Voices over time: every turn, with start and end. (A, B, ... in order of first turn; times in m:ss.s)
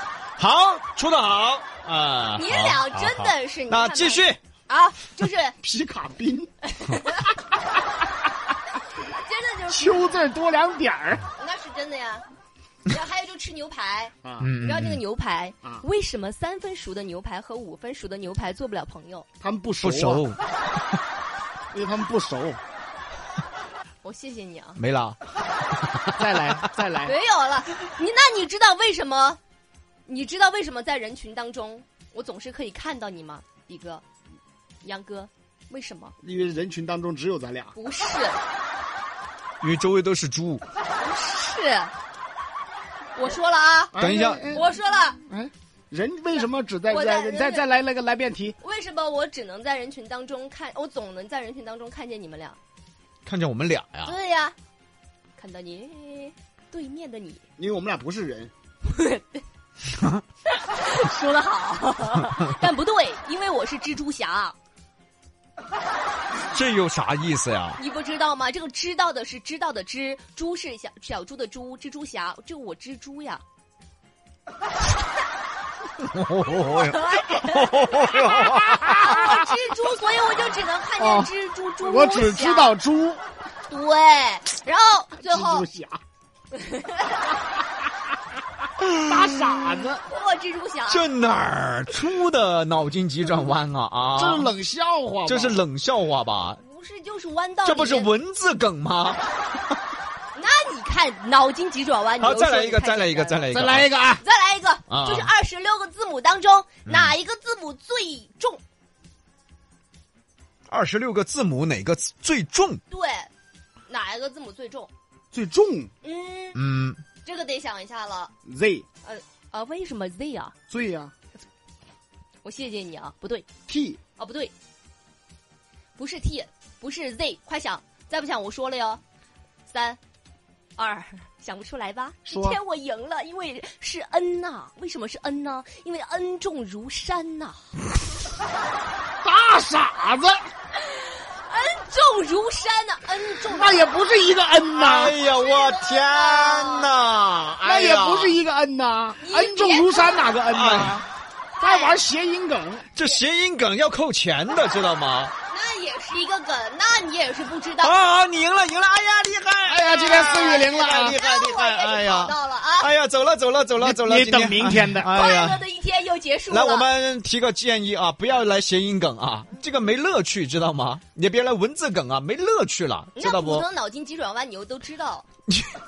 0:00.4-0:04.4 A
0:02.4-0:05.6 B
0:05.6-0:06.5 C
0:06.7-0:07.3 B
0:09.0-0:10.0 B
0:09.7-0:11.2 C
0:11.4-0:12.2 B
0:12.8-0:19.2 B
0:14.2-0:14.5 C
0:14.4-0:15.0 A
0:19.4-0:20.2 C
0:19.8-0:20.4 A
0:21.7-0:22.6 C
0:24.0-0:24.8 B
0:24.8-0:25.2 A
0:25.8-0:26.2 A
0:26.2-0:27.1 C
0:27.0-0:29.4 B
0:30.1-0:34.0 B
0:34.8-0:36.1 B
0:36.2-0:37.7 C
0:37.7-0:38.4 B
0:39.6-0:40.6 A
0:40.9-0:41.9 B
0:43.1-0:44.0 B
0:43.9-0:44.7 C
0:44.0-0:44.5 A
0:44.5-0:45.2 B
0:45.2-0:48.5 C
0:46.9-0:47.7 B
0:48.6-0:52.6 B
0:53.2-0:54.2 A
0:54.0-0:54.5 B
0:55.4-0:57.4 B
0:57.6-0:58.5 C
0:58.8-0:59.4 B
0:59.9-1:00.2 A
1:00.5-1:04.5 B
1:06.4-1:07.8 A
1:07.8-1:13.4 B
1:16.0-1:19.4 A
1:16.4-1:22.8 B
1:21.0-1:23.2 C
1:23.7-1:25.7 B
1:25.2-1:26.0 C
1:26.5-1:27.3 B
1:29.0-1:30.0 C
1:30.0-1:31.1 B
1:30.9-1:34.5 A
1:34.2-1:35.6 C
1:35.2-1:36.6 A
1:36.6-1:38.1 B
1:37.6-1:39.3 A
1:40.3-1:43.5 B
1:42.2-1:43.9 A
1:43.5-1:44.2 C
1:44.2-1:48.6 B
1:44.9-1:45.3 A
1:46.8-1:47.1 A
1:50.7-1:52.8 A
1:52.9-1:53.3 B
1:53.9-1:54.9 B
1:55.3-1:55.9 C
1:56.0-1:56.6 B
1:56.5-1:57.0 A
1:57.2-1:58.3 B
1:58.4-1:58.8 C
1:59.0-2:00.5 B
2:00.7-2:01.1 C
2:02.4-2:03.4 B
2:03.7-2:04.0 C
2:04.2-2:04.5 B
2:06.0-2:09.0 B
2:09.7-2:10.0 B
2:10.8-2:17.9 B
2:12.2-2:12.6 C
2:19.2-2:20.4 C
2:20.8-2:23.8 B
2:23.4-2:25.2 C
2:24.7-2:28.4 A
2:25.2-2:26.9 B
2:27.6-2:31.1 C
2:27.9-2:28.2 B
2:29.2-2:30.3 B
2:30.5-2:31.0 A
2:31.6-2:32.0 B
2:31.6-2:32.9 C
2:33.0-2:35.3 A
2:35.5-2:38.0 B
2:37.8-2:45.6 A
2:39.7-2:41.2 C
2:39.8-2:42.9 B
2:43.8-2:45.2 C
2:45.1-2:46.9 B
2:46.5-2:53.6 A
2:53.2-2:55.2 B
2:55.5-2:55.8 A